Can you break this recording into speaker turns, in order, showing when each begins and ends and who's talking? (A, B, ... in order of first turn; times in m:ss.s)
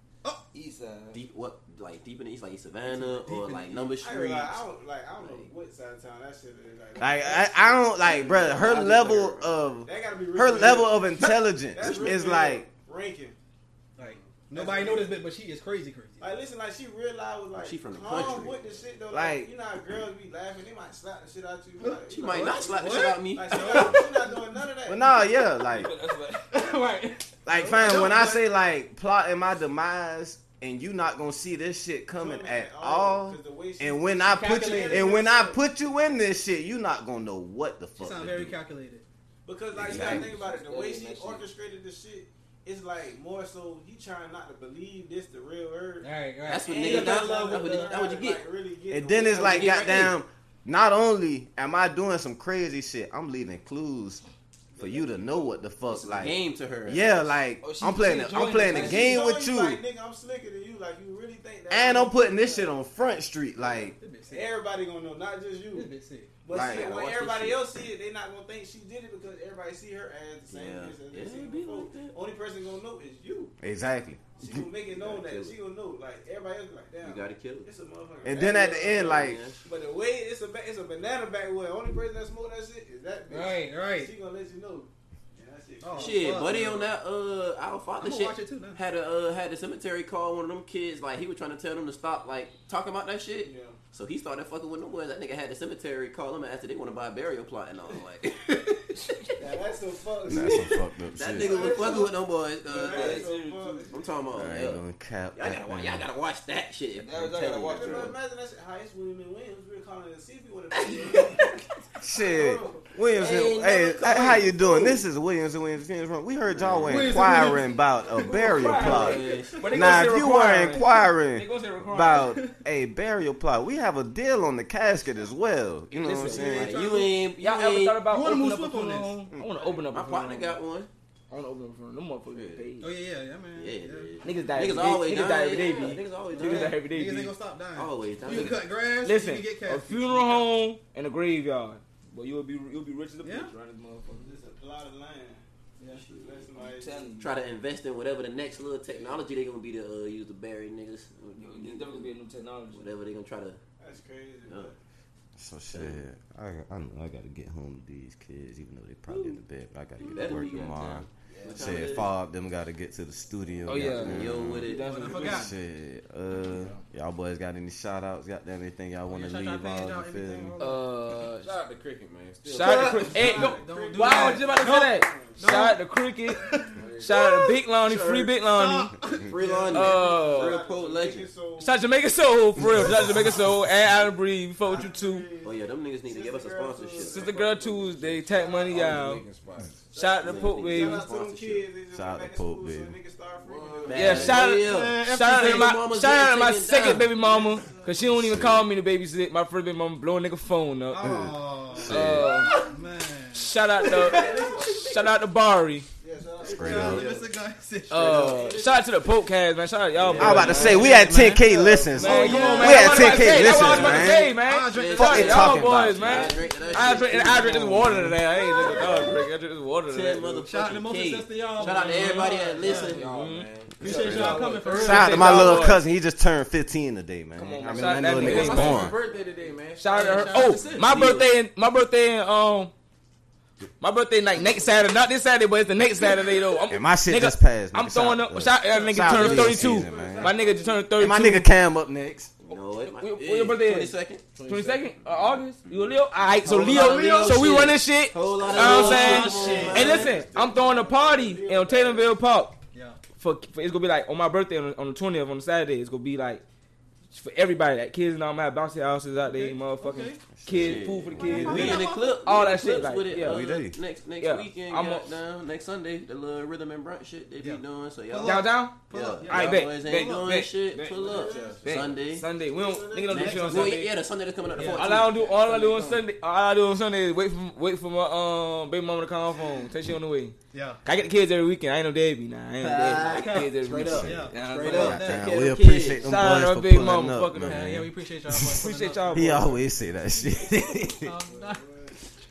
0:00.5-0:01.2 A
0:01.1-0:04.6 B
0:02.8-0:03.9 C
0:04.0-0:08.8 D
0:05.2-0:05.5 B
0:07.0-0:12.7 E
0:08.1-0:09.5 B
0:09.8-0:13.4 D
0:11.2-0:12.2 B
0:14.0-0:16.4 C
0:14.0-0:15.2 D
0:16.2-0:25.2 D
0:17.5-0:18.6 B
0:19.1-0:19.5 E
0:21.8-0:24.6 C
0:22.1-0:24.1 B
0:24.9-0:25.9 E
0:25.7-0:26.6 A
0:26.5-0:28.4 C
0:27.4-0:38.6 E
0:32.2-0:35.6 D
0:34.4-0:35.2 C
0:38.0-0:39.0 C
0:39.4-0:50.1 D
0:39.8-0:40.3 E
0:39.8-0:41.5 A
0:46.0-0:47.9 C
0:46.5-0:48.5 B
0:48.9-0:54.2 E
0:49.4-0:50.2 B
0:54.8-0:55.6 D
0:54.8-0:59.8 E
0:55.9-0:56.2 A
0:56.1-0:57.2 B
0:57.6-0:59.2 A
0:58.6-1:02.8 D
1:01.7-1:04.0 E
1:03.7-1:13.5 D
1:03.9-1:04.6 C
1:05.7-1:06.3 C
1:06.5-1:06.9 E
1:06.5-1:07.6 B
1:10.5-1:12.2 B
1:13.6-1:14.2 E
1:14.4-1:26.4 D
1:14.9-1:15.6 B
1:17.0-1:17.7 B
1:18.2-1:19.4 E
1:18.9-1:19.6 B
1:23.3-1:24.1 C
1:25.8-1:26.9 C
1:26.0-1:39.4 B
1:28.0-1:28.8 C
1:33.4-1:33.8 D
1:39.4-1:40.8 D
1:40.3-1:41.8 E
1:40.3-1:43.3 B
1:41.3-1:44.2 D
1:42.8-1:43.9 A
1:43.9-1:44.8 B
1:44.3-1:46.1 E
1:45.4-1:48.1 B
1:47.0-1:48.1 A
1:47.7-1:52.9 D
1:50.7-1:51.6 B
1:52.0-2:06.8 E
1:53.1-1:55.0 B
1:56.6-1:57.2 B
1:56.8-1:59.7 C
1:58.2-2:02.3 A
1:58.8-2:00.0 B
2:02.2-2:02.5 C
2:05.9-2:10.6 A
2:06.3-2:08.1 B
2:08.1-2:09.2 C
2:09.9-2:10.9 B
2:11.3-2:12.9 A
2:12.3-2:12.7 B
2:12.8-2:14.1 C
2:13.5-2:16.8 B
2:14.2-2:17.4 A
2:16.3-2:20.5 C
2:17.7-2:18.8 B
2:18.2-2:24.3 A
2:23.2-2:23.5 C
2:24.1-2:25.4 D
2:25.9-2:26.5 B
2:26.0-2:27.1 D
2:26.6-2:27.3 A
2:27.2-2:32.1 B
2:31.3-2:32.9 A
2:32.7-2:33.6 B
2:33.8-2:34.8 D
2:34.5-2:34.7 B
2:35.4-2:50.6 E
2:35.7-2:36.0 B
2:39.1-2:39.4 A
2:40.0-2:42.1 B
2:41.3-2:41.9 F
2:43.6-2:45.5 A
2:44.0-2:45.2 B
2:44.8-2:45.5 C
2:49.1-2:50.9 C
2:50.6-2:51.5 A
2:51.1-2:53.2 F
2:52.5-2:53.1 B
2:52.5-2:56.5 A
2:52.8-2:55.5 D
2:53.1-2:57.6 C
2:56.8-2:57.1 F
2:57.0-2:58.9 A
2:57.8-2:58.4 B
2:58.5-2:59.9 C
2:59.3-3:01.3 B
2:59.7-3:01.8 D
2:59.7-3:00.6 A
3:01.6-3:05.3 A
3:04.7-3:09.0 D
3:05.4-3:07.3 B
3:07.0-3:09.2 A
3:07.4-3:09.9 F
3:09.9-3:11.0 A
3:09.9-3:14.4 D
3:10.2-3:11.6 B
3:11.9-3:13.0 E
3:13.4-3:14.4 F
3:13.9-3:17.1 B
3:13.9-3:21.2 A
3:14.3-3:15.7 C
3:17.1-3:18.0 D
3:18.1-3:18.6 E
3:20.9-3:24.6 C
3:21.0-3:22.3 E
3:21.8-3:22.5 A
3:23.3-3:25.9 A
3:24.0-3:25.0 D
3:24.1-3:24.7 B
3:26.0-3:27.2 D
3:26.4-3:28.6 C
3:26.4-3:27.1 E
3:26.7-3:27.2 B
3:27.9-3:31.3 A
3:28.0-3:28.9 D
3:30.0-3:30.8 B
3:30.2-3:35.7 C
3:30.2-3:36.2 E
3:31.9-3:40.2 A
3:34.7-3:37.8 B
3:37.8-3:38.1 C
3:38.6-3:39.1 B
3:39.9-3:43.0 B
3:40.4-3:43.0 C
3:41.6-3:42.2 A
3:42.6-3:44.7 F
3:42.9-3:45.8 A
3:43.8-3:45.8 C
3:43.8-3:49.0 E
3:47.4-3:48.9 A
3:48.1-3:51.2 F
3:48.2-3:48.9 B
3:49.8-3:52.7 A
3:49.9-3:51.0 C
3:53.8-4:01.5 A
3:56.7-4:00.3 E
3:58.7-3:59.7 C
3:59.5-4:00.8 D
4:01.0-4:02.3 E
4:02.4-4:04.8 B
4:02.5-4:12.6 A
4:04.4-4:04.9 F
4:06.3-4:10.2 B
4:08.5-4:10.0 C
4:09.3-4:12.1 D
4:12.7-4:13.0 C
4:13.2-4:16.4 A
4:17.1-4:23.4 A
4:19.2-4:20.2 C
4:20.3-4:21.8 E
4:20.5-4:32.3 B
4:21.3-4:22.2 C
4:23.2-4:23.8 E
4:24.2-4:25.1 A
4:27.4-4:29.7 C
4:28.2-4:34.0 A
4:31.0-4:31.7 D
4:31.0-4:31.6 F
4:32.4-4:33.8 D
4:33.1-4:36.0 B
4:34.5-4:35.0 C
4:34.7-4:45.0 A
4:40.5-4:40.8 C
4:42.6-4:46.2 B
4:43.0-4:45.4 C
4:43.9-4:51.1 E
4:46.0-4:47.7 A
4:47.4-4:49.6 C
4:48.6-4:49.6 A
4:50.2-4:52.0 D
4:50.7-4:51.6 C